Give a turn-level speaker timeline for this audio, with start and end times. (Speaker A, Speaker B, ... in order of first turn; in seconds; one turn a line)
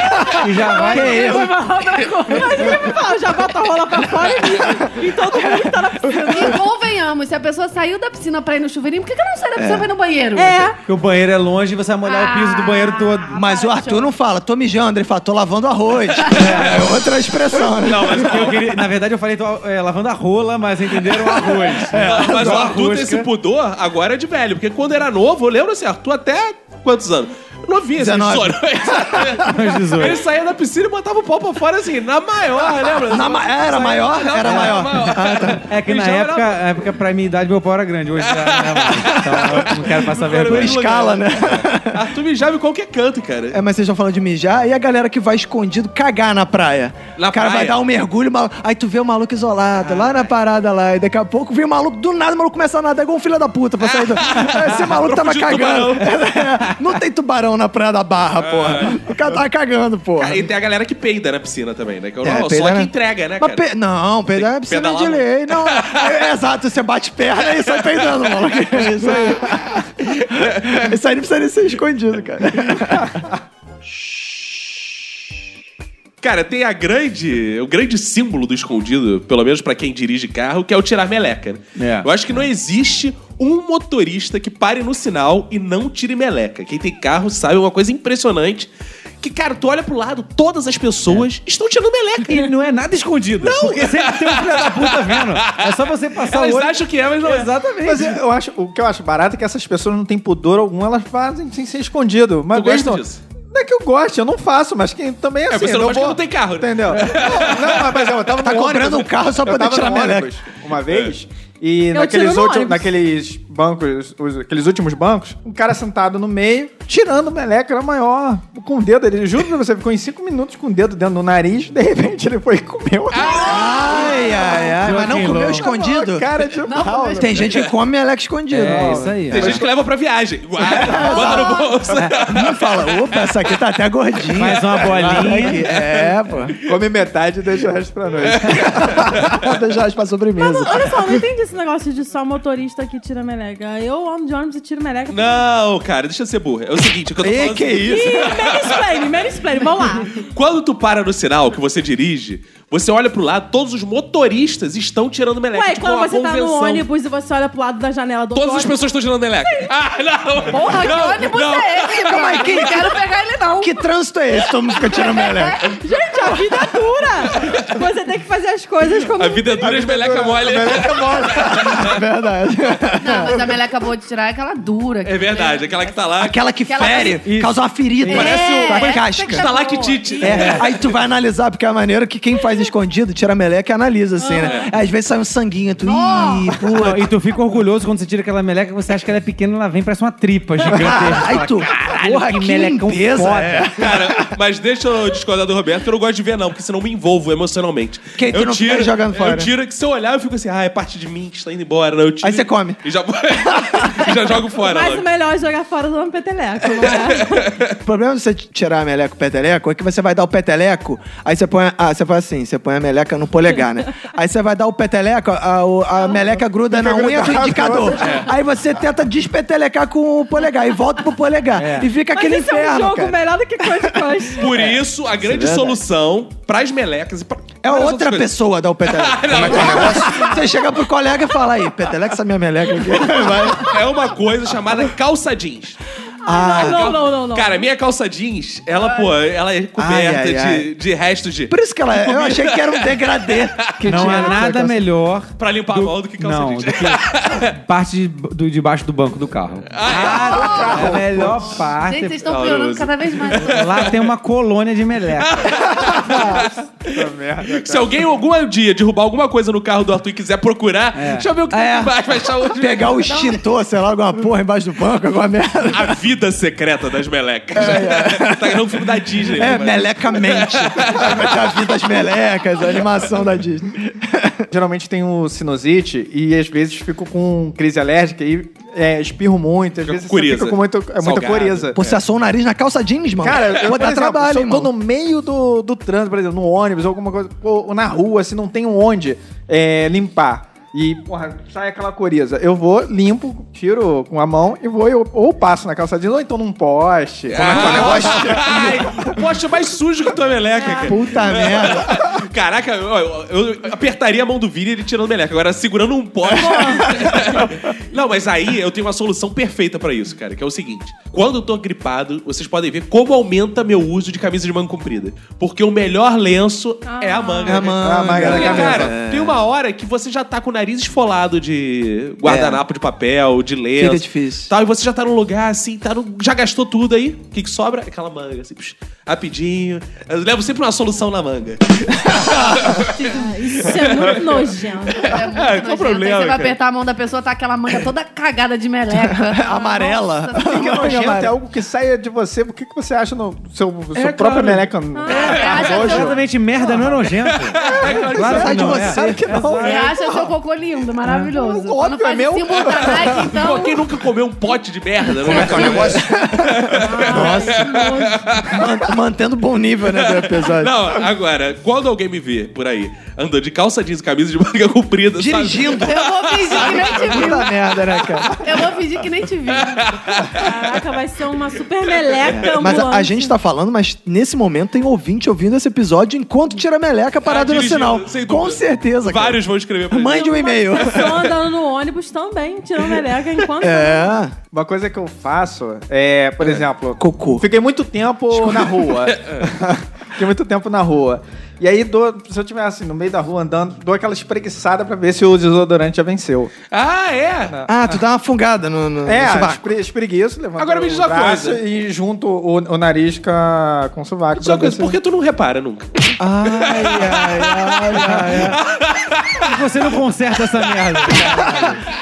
Speaker A: 0.3-1.4
Speaker B: 0.6-6.6
Speaker C: 0.7-2.4
Speaker D: 0.8-1.6
Speaker C: 6.2-10.7
Speaker D: 9.6-9.9
Speaker B: 10.3-10.8
Speaker A: 10.8-13.4
Speaker C: 12.1-14.1
Speaker D: 13.3-18.6
Speaker A: 16.3-16.9
Speaker E: 17.8-18.7
Speaker A: 18.1-23.3
Speaker D: 21.8-22.8
Speaker E: 21.9-36.6
Speaker D: 27.9-29.5
Speaker A: 29.5-30.2
Speaker D: 33.0-35.6
Speaker A: 34.4-40.8
Speaker E: 38.2-43.6
Speaker D: 40.5-42.1
Speaker D: 43.5-60.5
Speaker E: 47.2-47.8
Speaker E: 49.8-50.3
Speaker E: 53.8-56.2
Speaker E: 58.4-59.0
Speaker E: 60.2-63.7
Speaker D: 62.2-73.1
Speaker E: 64.3-66.2
Speaker E: 67.5-69.4
Speaker E: 70.2-70.9
Speaker E: 76.2-88.7
Speaker A: 81.8-82.1
Speaker E: 89.2-92.5
Speaker A: 92.2-98.2
Speaker E: 93.4-97.5
Speaker F: 97.8-123.5
Speaker E: 102.5-103.2
Speaker E: 105.5-108.1
Speaker D: 108.4-110.3
Speaker B: 111.9-112.9
Speaker E: 123.1-124.2
Speaker C: 123.2-125.9
Speaker D: 123.4-126.3
Speaker A: 124.8-125.7
Speaker F: 125.0-127.5
Speaker C: 126.6-127.6
Speaker D: 127.2-129.6
Speaker A: 128.5-129.6
Speaker F: 128.6-129.7
Speaker E: 129.3-133.3
Speaker D: 130.6-136.6
Speaker C: 130.9-131.7
Speaker A: 134.4-135.6
Speaker E: 135.6-136.1
Speaker F: 136.6-139.4
Speaker E: 138.2-139.4
Speaker D: 138.8-141.2
Speaker B: 140.4-145.4
Speaker E: 145.1-148.8
Speaker D: 147.2-148.4
Speaker B: 147.8-150.2
Speaker E: 150.1-156.8
Speaker B: 155.5-158.9
Speaker E: 158.3-163.0
Speaker B: 159.4-159.7
Speaker C: 160.5-163.8
Speaker B: 160.8-161.2
Speaker D: 162.0-162.9
Speaker D: 163.6-165.6
Speaker C: 164.8-165.8
Speaker B: 165.8-169.8
Speaker E: 167.3-167.7
Speaker E: 169.1-172.0
Speaker F: 169.6-171.7
Speaker D: 171.3-173.6
Speaker C: 173.0-176.1
Speaker E: 175.0-176.4
Speaker D: 176.2-179.5
Speaker C: 176.6-177.2
Speaker A: 177.2-178.4
Speaker C: 178.1-180.5
Speaker B: 178.6-179.1
Speaker E: 179.3-180.8
Speaker D: 180.2-187.1
Speaker A: 180.2-180.6
Speaker B: 184.2-184.7
Speaker E: 184.4-184.7
Speaker C: 185.8-186.6
Speaker A: 186.8-193.7
Speaker D: 190.6-194.3
Speaker E: 193.8-205.0
Speaker D: 198.2-199.5
Speaker D: 202.2-202.8
Speaker D: 203.5-204.1
Speaker B: 204.6-207.5
Speaker E: 206.6-207.8
Speaker D: 207.8-223.2
Speaker F: 216.7-218.2
Speaker E: 218.0-218.3
Speaker A: 221.6-221.9
Speaker B: 222.1-224.6
Speaker D: 223.9-224.7
Speaker E: 224.3-230.5
Speaker D: 225.2-225.8
Speaker D: 227.6-233.8
Speaker E: 233.5-235.8
Speaker D: 236.2-236.9
Speaker B: 236.2-237.6
Speaker E: 236.5-244.1
Speaker D: 239.8-240.7
Speaker D: 241.5-244.7
Speaker A: 243.8-252.2
Speaker F: 243.9-244.4
Speaker E: 245.4-247.5
Speaker E: 249.7-250.7
Speaker F: 250.0-251.6
Speaker C: 250.2-251.0
Speaker C: 251.6-253.9
Speaker E: 252.2-254.0
Speaker A: 253.3-255.5
Speaker E: 255.2-263.0
Speaker F: 256.1-258.1
Speaker A: 260.9-261.3
Speaker D: 261.5-266.0
Speaker C: 263.0-263.4
Speaker E: 265.7-271.7
Speaker D: 267.5-268.6
Speaker D: 269.3-274.4
Speaker F: 274.5-281.8
Speaker E: 279.8-282.0
Speaker D: 281.7-284.7
Speaker F: 283.2-298.6
Speaker E: 297.3-336.6
Speaker D: 297.3-298.9
Speaker B: 300.5-301.0
Speaker D: 300.9-302.0
Speaker B: 306.3-307.2
Speaker B: 316.8-317.7
Speaker D: 317.4-319.4
Speaker F: 317.7-318.9
Speaker D: 322.2-322.6
Speaker D: 323.8-324.5
Speaker D: 332.0-332.9
Speaker B: 333.0-335.1
Speaker C: 335.0-340.9
Speaker D: 338.9-341.3
Speaker F: 340.3-346.2
Speaker E: 343.9-345.8
Speaker B: 344.9-346.1
Speaker C: 345.0-346.1
Speaker A: 345.6-349.9
Speaker E: 347.1-348.8
Speaker F: 347.6-350.3
Speaker D: 347.9-349.3
Speaker C: 349.6-353.9
Speaker D: 351.4-352.1
Speaker F: 351.4-353.2
Speaker E: 352.6-358.9
Speaker D: 355.2-357.8
Speaker C: 355.3-355.7
Speaker B: 356.8-358.2
Speaker D: 358.4-360.9
Speaker E: 359.9-367.4
Speaker D: 365.1-368.6
Speaker C: 365.8-367.5
Speaker E: 367.9-368.3
Speaker C: 368.4-370.0
Speaker E: 369.5-370.5
Speaker B: 370.3-373.3
Speaker E: 372.1-372.4
Speaker D: 372.2-381.2
Speaker E: 377.2-381.1
Speaker B: 380.1-384.1
Speaker D: 383.6-384.3
Speaker F: 384.5-396.5
Speaker D: 386.4-387.4
Speaker D: 388.3-388.9
Speaker E: 389.1-389.4
Speaker E: 396.7-397.6
Speaker D: 397.7-399.6
Speaker F: 399.0-405.0
Speaker E: 400.6-401.6
Speaker E: 404.4-405.9
Speaker D: 406.2-408.5
Speaker E: 406.4-409.6
Speaker A: 407.9-408.6
Speaker A: 409.4-411.8